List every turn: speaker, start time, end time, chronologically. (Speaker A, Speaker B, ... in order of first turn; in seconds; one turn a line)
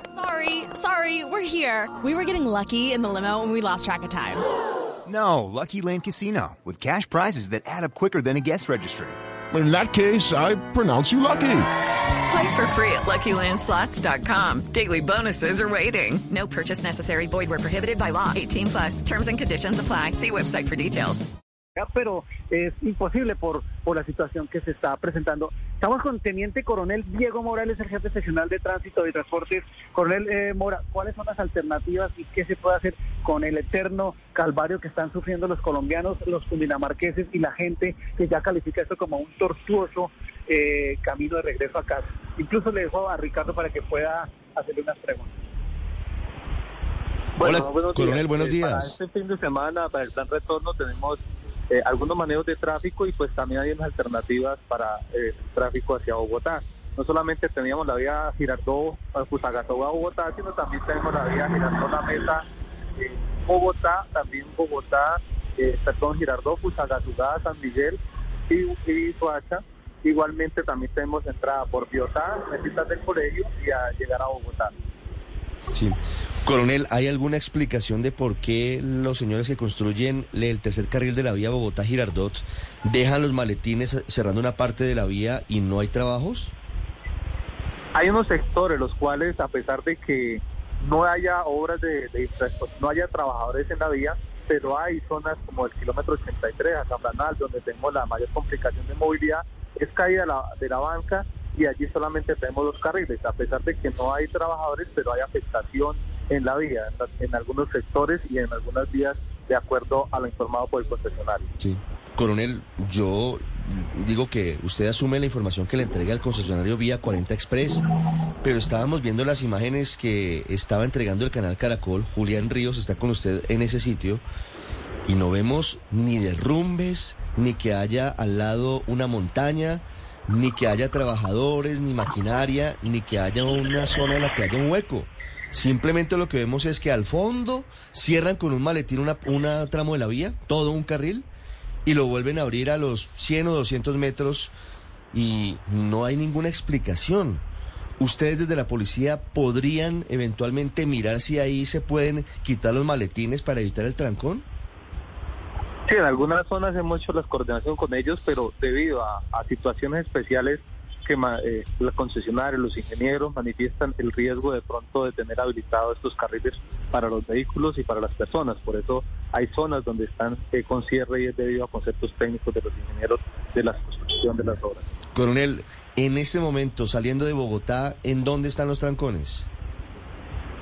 Speaker A: 0.2-4.4
Speaker B: 5.0-9.2
Speaker C: 9.5-11.7
Speaker D: 12.2-21.3
Speaker E: 21.8-45.3
Speaker F: 47.4-62.4
Speaker G: 47.4-48.9
Speaker F: 63.0-74.7
Speaker G: 75.7-86.5
Speaker F: 87.9-111.5
Speaker G: 111.6-117.8
Speaker G: 118.4-124.2
Speaker G: 125.1-141.3
Speaker G: 141.8-144.5
Speaker G: 145.1-147.4
Speaker G: 148.0-154.4
Speaker F: 155.9-174.8
Speaker G: 175.1-179.5